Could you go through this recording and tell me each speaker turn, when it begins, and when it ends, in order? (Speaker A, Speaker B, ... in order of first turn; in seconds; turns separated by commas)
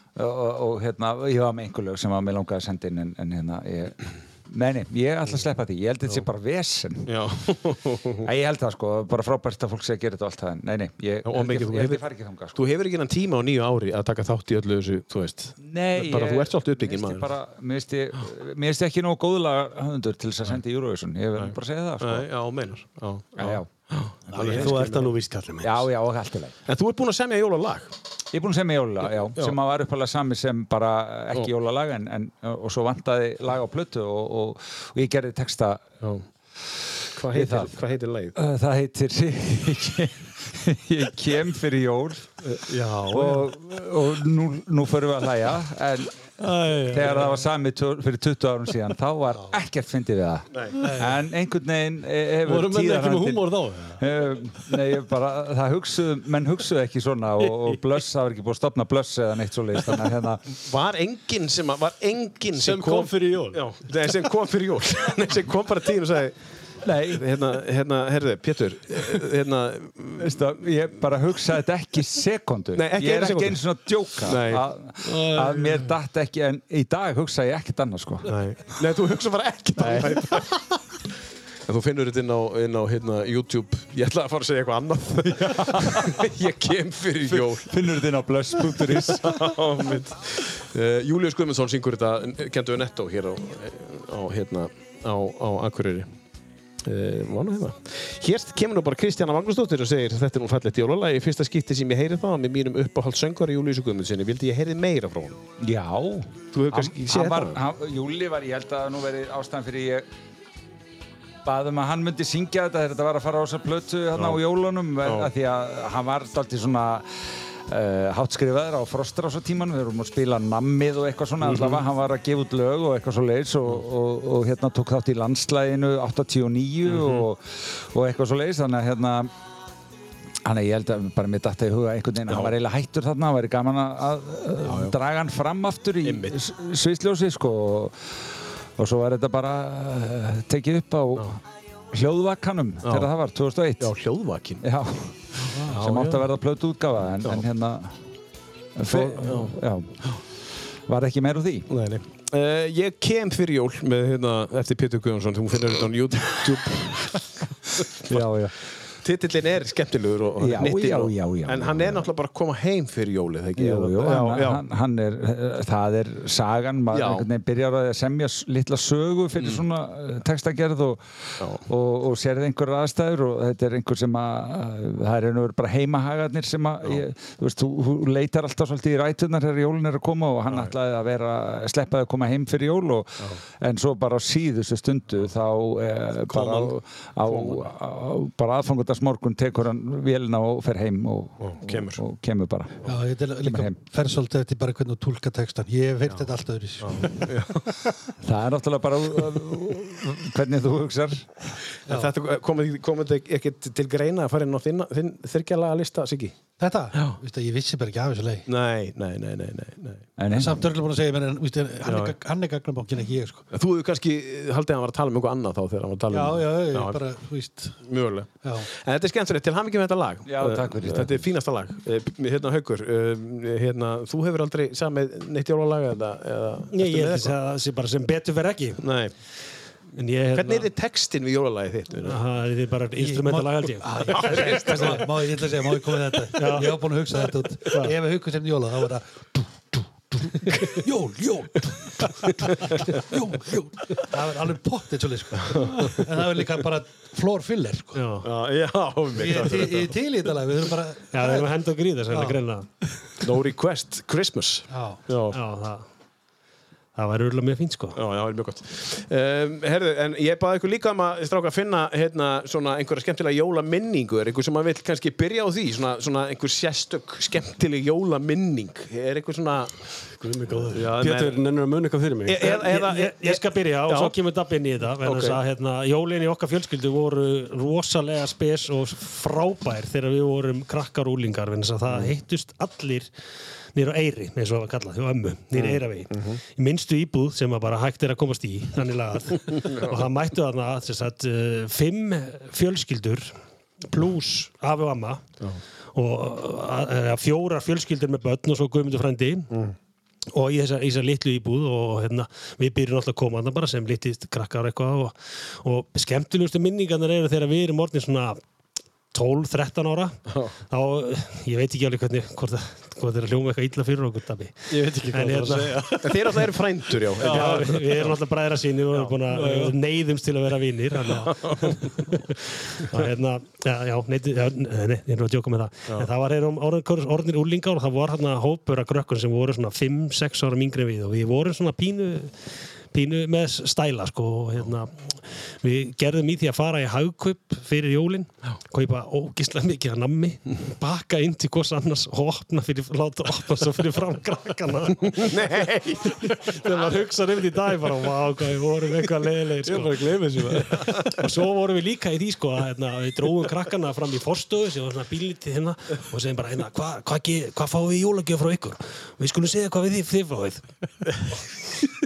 Speaker A: 0.2-7.1, Speaker B: 7.1-8.3, Speaker A: 8.2-12.6, Speaker B: 11.2-17.3, Speaker A: 15.6-22.3, Speaker B: 21.4-25.1, Speaker A: 23.4-23.7, Speaker C: 24.4-25.9, Speaker A: 24.4-24.9, Speaker A: 25.6-26.5, Speaker B: 26.7-27.9, Speaker A: 28.3-35.9, Speaker B: 37.1-38.4, Speaker A: 37.3-37.8, Speaker A: 38.4-42.3, Speaker C: 42.7-43.5, Speaker A: 43.1-46.2, Speaker C: 46.4-47.4, Speaker A: 46.9-60.4, Speaker B: 50.5-50.8, Speaker D: 50.8-51.2, Speaker C: 52.4-54.0, Speaker B: 60.6-70.6, Speaker C: 62.5-63.6, Speaker A: 70.2-78.3, Speaker B: 72.8-74.7, Speaker C: 75.0-75.9, Speaker B: 78.2-80.6, Speaker A: 79.8-80.4, Speaker B: 81.7-87.8, Speaker A: 85.4-86.3, Speaker A: 87.3-89.6, Speaker B: 88.7-96.1, Speaker B: 96.8-105.4, Speaker A: 105.6-110.1, Speaker B: 106.5-107.6, Speaker A: 111.5-117.1, Speaker B: 114.2-114.4, Speaker B: 115.0-115.3, Speaker A: 117.7-129.3, Speaker B: 121.4-121.8, Speaker B: 126.9-127.3, Speaker A: 130.4-137.9, Speaker B: 132.3-132.5, Speaker B: 134.6-135.0, Speaker B: 136.0-136.4, Speaker A: 138.8-141.4, Speaker A: 141.9-143.9, Speaker B: 142.8-143.1, Speaker B: 143.8-144.6, Speaker A: 144.6-147.9, Speaker D: 145.5-145.8, Speaker B: 145.7-146.2, Speaker A: 148.8-150.0, Speaker B: 148.9-150.2, Speaker A: 150.9-151.7, Speaker B: 151.7-158.4, Speaker A: 158.1-158.5, Speaker B: 159.0-164.6, Speaker A: 160.4-162.1, Speaker A: 163.6-192.9, Speaker B: 166.9-167.3, Speaker B: 169.4-169.6, Speaker B: 180.5-180.7, Speaker B: 186.3-186.6, Speaker B: 187.3-187.7, Speaker B: 191.4-192.0, Speaker D: 192.9-197.4, Speaker A: 193.4-193.8, Speaker B: 196.8-197.8, Speaker A: 198.2-201.3, Speaker B: 201.9-206.4, Speaker D: 206.6-208.5, Speaker B: 206.9-207.2, Speaker B: 208.5-210.1, Speaker A: 210.2-210.7, Speaker D: 210.3-213.4, Speaker B: 211.8-212.2, Speaker B: 213.5-217.0, Speaker D: 216.1-217.8, Speaker B: 217.8-227.4, Speaker D: 218.4-218.7, Speaker A: 220.3-221.2, Speaker E: 226.7-228.8, Speaker B: 228.8-229.1, Speaker E: 230.0-230.7, Speaker B: 230.3-232.2, Speaker E: 232.0-234.9, Speaker D: 233.0-248.0, Speaker B: 234.1-235.1, Speaker E: 236.3-236.8, Speaker E: 237.7-237.9, Speaker B: 245.4-246.1, Speaker E: 247.9-248.3, Speaker B: 248.2-249.9, Speaker D: 249.2-251.5, Speaker E: 251.1-252.7, Speaker D: 252.1-252.4, Speaker B: 253.2-255.4, Speaker D: 254.7-255.0, Speaker E: 255.3-255.8, Speaker E: 256.9-258.0, Speaker B: 257.9-271.4, Speaker C: 270.3-272.5, Speaker B: 272.2-274.2, Speaker E: 272.4-283.1, Speaker B: 275.0-275.4, Speaker E: 283.7-293.4, Speaker B: 285.5-286.4, Speaker B: 289.6-290.0, Speaker E: 293.9-295.2, Speaker E: 295.9-299.5, Speaker E: 300.3-308.4, Speaker E: 309.1-316.2, Speaker B: 310.3-310.5, Speaker C: 314.7-316.4, Speaker B: 315.5-318.1, Speaker C: 317.2-318.1, Speaker E: 317.2-360.6, Speaker C: 319.3-319.7, Speaker B: 321.1-321.8, Speaker B: 345.1-346.6, Speaker C: 349.6-351.1